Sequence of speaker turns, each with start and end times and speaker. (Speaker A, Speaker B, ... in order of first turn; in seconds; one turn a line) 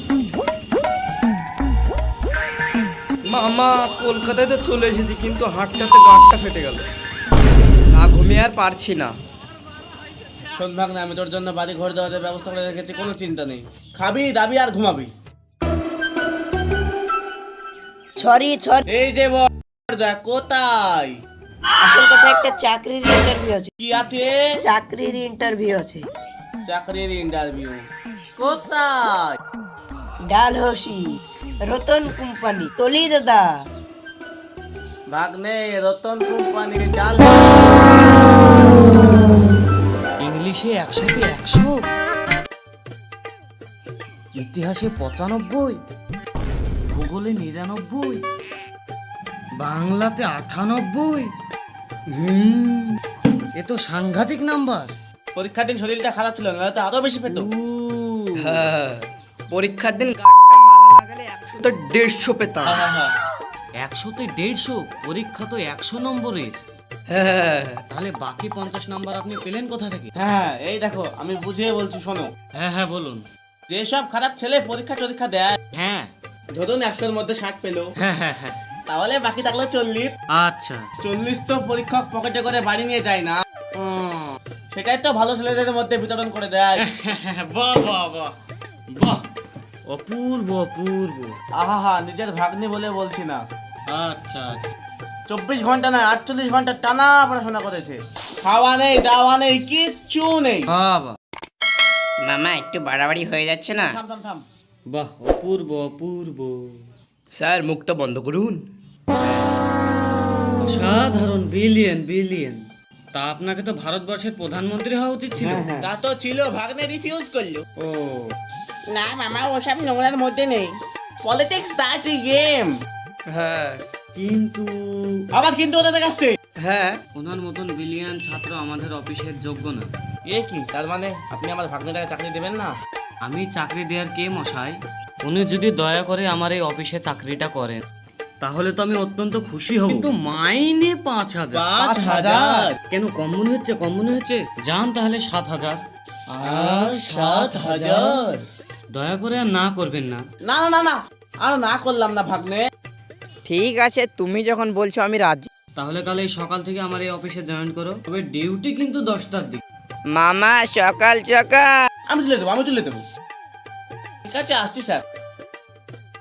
Speaker A: 3.2-6.8
Speaker A: 7.9-9.1
Speaker B: 10.6-15.1
Speaker C: 18.2-18.8
Speaker B: 18.9-21.1
Speaker C: 21.8-23.7
Speaker B: 23.8-24.4
Speaker C: 24.6-26.1
Speaker B: 26.6-27.8
Speaker B: 28.4-29.4
Speaker C: 30.2-33.6
Speaker B: 35.1-38.0
Speaker D: 40.2-41.8
Speaker D: 44.3-45.8
Speaker D: 46.9-48.2
Speaker D: 49.6-51.3
Speaker D: 52.1-53.0
Speaker D: 53.6-54.9
Speaker B: 55.3-57.5
Speaker D: 57.3-58.7
Speaker A: 58.4-62.9
Speaker B: 62.7-63.0
Speaker D: 63.8-66.6
Speaker A: 67.1-67.8
Speaker D: 67.9-70.1
Speaker B: 70.2-72.3
Speaker D: 72.5-73.2
Speaker B: 73.7-75.6
Speaker D: 75.7-76.1
Speaker B: 76.5-77.9
Speaker D: 78.0-78.6
Speaker B: 78.9-80.1
Speaker D: 80.3-80.8
Speaker B: 81.0-83.4
Speaker D: 83.8-84.3
Speaker B: 84.7-86.8
Speaker D: 86.8-88.3
Speaker D: 88.9-89.2
Speaker D: 89.9-91.3
Speaker B: 91.6-93.4
Speaker D: 93.9-94.7
Speaker B: 95.3-100.7
Speaker D: 100.7-101.2
Speaker E: 102.2-104.0
Speaker B: 103.9-104.4
Speaker D: 104.9-106.8
Speaker A: 107.3-108.6
Speaker D: 109.2-109.6
Speaker D: 110.6-115.7
Speaker B: 115.4-117.6
Speaker D: 117.8-118.3
Speaker B: 118.9-120.7
Speaker B: 121.2-122.7
Speaker A: 123.3-123.8
Speaker D: 124.1-125.2
Speaker B: 125.3-126.3
Speaker A: 126.6-127.0
Speaker D: 127.1-129.9
Speaker B: 130.3-132.7
Speaker D: 133.2-137.8
Speaker D: 138.4-141.7
Speaker B: 141.5-142.7
Speaker A: 141.8-142.7
Speaker D: 142.9-148.2
Speaker B: 146.4-148.4
Speaker D: 148.9-150.2
Speaker B: 150.4-152.6
Speaker E: 153.4-155.5
Speaker D: 155.8-159.6
Speaker E: 160.1-161.7
Speaker B: 162.1-163.0
Speaker B: 164.3-165.0